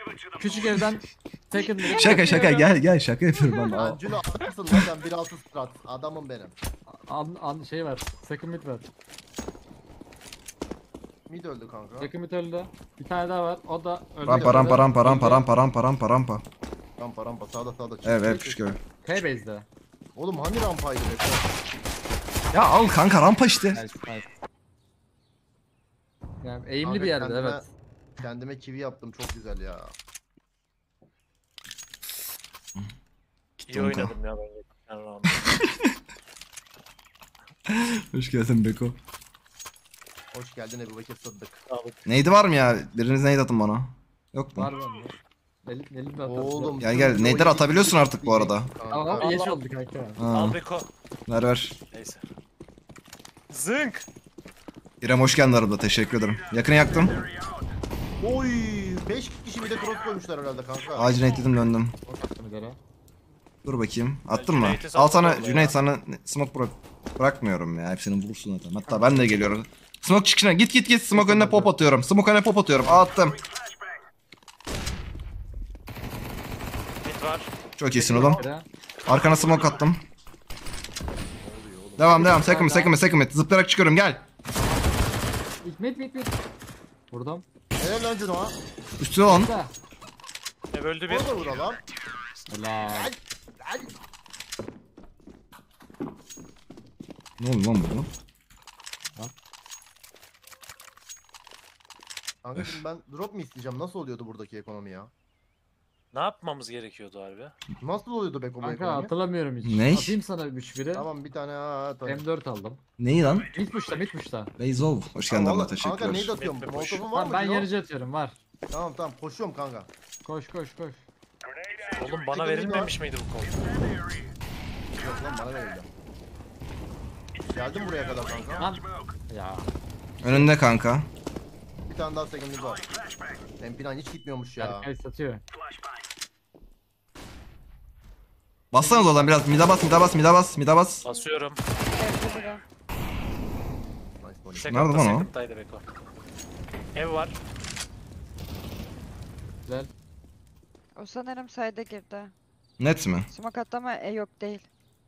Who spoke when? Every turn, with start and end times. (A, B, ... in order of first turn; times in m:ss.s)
0:00.4-0:02.4 A
0:01.6-0:02.8 B
0:01.9-0:04.0 C
0:03.4-0:03.8 B
0:03.7-0:06.6 D
0:06.9-0:08.9 A
0:11.3-0:12.1 D
0:12.0-0:15.5 A
0:14.3-0:16.4 C
0:14.3-0:14.8 D
0:17.0-0:18.7 D
0:18.0-0:18.8 C
0:19.0-0:19.7 A
0:20.2-0:21.5 D
0:22.5-0:23.8 C
0:23.7-0:24.3 A
0:26.4-0:27.7 A
0:26.8-0:27.7 D
0:28.2-0:30.0 D
0:33.6-0:34.1 C
0:33.7-0:35.5 E
0:35.4-0:36.0 C
0:37.7-0:39.0 C
0:40.3-0:41.6 D
0:41.7-0:42.0 E
0:42.1-0:44.7 C
0:44.6-0:46.8 A
0:46.2-0:49.5 D
0:46.8-0:48.7 C
0:48.9-0:50.2 A
0:50.2-0:50.6 C
0:50.3-0:50.9 E
0:51.3-0:51.8 C
0:51.9-0:52.3 E
0:53.5-0:54.1 E
0:55.0-0:57.1 C
0:58.2-1:01.2 D
1:00.9-1:02.0 C
1:02.1-1:02.8 A
1:03.6-1:13.4 C
1:04.3-1:05.8 E
1:05.2-1:05.6 D
1:08.8-1:09.5 A
1:11.1-1:11.8 A
1:17.0-1:17.5 E
1:17.8-1:18.4 C
1:18.0-1:18.7 A
1:18.0-1:18.4 D
1:19.1-1:20.0 C
1:19.1-1:19.8 E
1:21.4-1:22.2 D
1:22.0-1:24.3 C
1:22.0-1:23.0 A
1:24.5-1:25.0 A
1:25.6-1:26.4 A
1:27.1-1:27.4 A
1:27.8-1:28.6 D
1:29.0-1:29.5 C
1:29.2-1:29.7 A
1:30.7-1:31.7 E
1:31.1-1:31.8 D
1:32.5-1:33.1 A
1:32.9-1:33.9 D
1:37.4-1:38.1 C
1:42.4-1:45.1 D
1:42.6-1:42.8 C
1:46.1-1:47.5 E
1:47.8-1:49.1 D
1:48.6-1:51.1 A
1:49.6-1:50.2 C
1:50.9-1:52.2 D
1:52.0-1:52.8 A
1:53.0-1:53.5 C
1:53.5-1:54.5 A
1:54.6-1:56.3 C
1:55.3-1:57.7 D
1:56.4-1:57.1 E
1:57.1-1:58.4 A
1:58.7-1:59.9 D
2:00.2-2:01.1 A
2:02.0-2:03.6 E
2:02.3-2:02.9 D
2:05.0-2:05.9 D
2:07.5-2:08.7 D
2:08.6-2:09.7 A
2:10.2-2:11.1 C
2:11.9-2:12.9 D
2:13.6-2:14.9 D
2:14.6-2:15.4 A
2:18.7-2:21.0 C
2:18.8-2:19.5 A
2:21.0-2:22.6 B
2:21.0-2:21.6 E
2:24.2-2:24.7 D
2:24.5-2:25.9 E
2:24.6-2:25.3 C
2:27.0-2:27.4 E
2:29.6-2:29.9 A
2:31.0-2:32.3 B
2:32.8-2:33.3 C
2:33.3-2:34.7 B